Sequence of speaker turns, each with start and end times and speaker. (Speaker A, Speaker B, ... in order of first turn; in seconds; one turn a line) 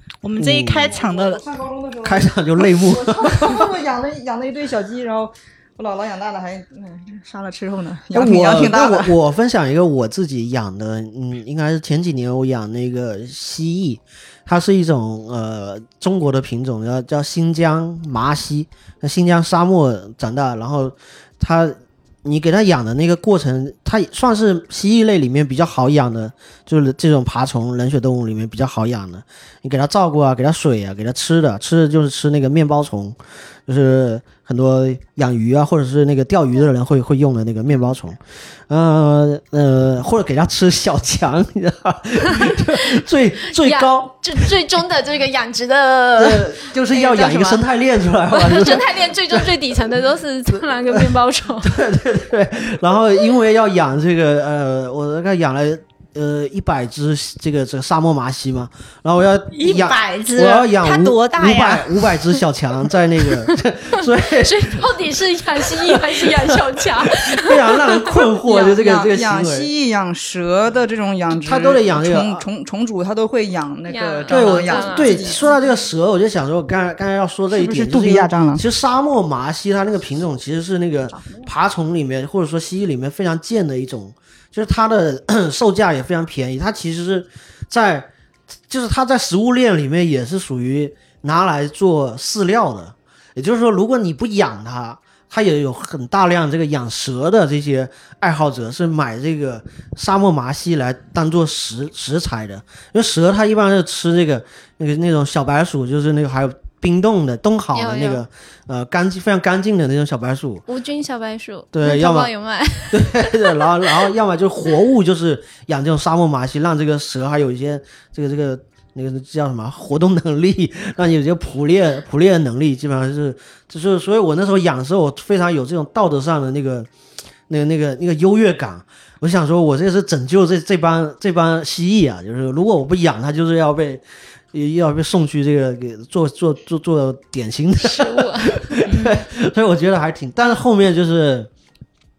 Speaker A: 0.2-1.4
Speaker B: 0.4-0.9
Speaker C: 0.9-9.2
Speaker B: 2.0-3.7
Speaker B: 8.1-44.6
Speaker D: 43.6-47.6
Speaker B: 46.1-49.8
Speaker D: 48.3-51.8
Speaker B: 50.5-65.0
Speaker A: 59.5-62.4
Speaker D: 64.0-68.2
Speaker B: 65.6-69.7
Speaker C: 68.5-75.4
Speaker B: 71.3-72.5
Speaker D: 73.9-75.5
Speaker B: 74.3-88.1
Speaker C: 77.5-78.6
Speaker C: 81.1-81.5
Speaker B: 88.7-110.7
Speaker D: 107.7-108.2
Speaker D: 110.7-113.7
Speaker B: 111.7-112.3
Speaker B: 112.9-126.9
Speaker B: 127.5-141.5
Speaker D: 137.8-138.8
Speaker A: 138.9-139.2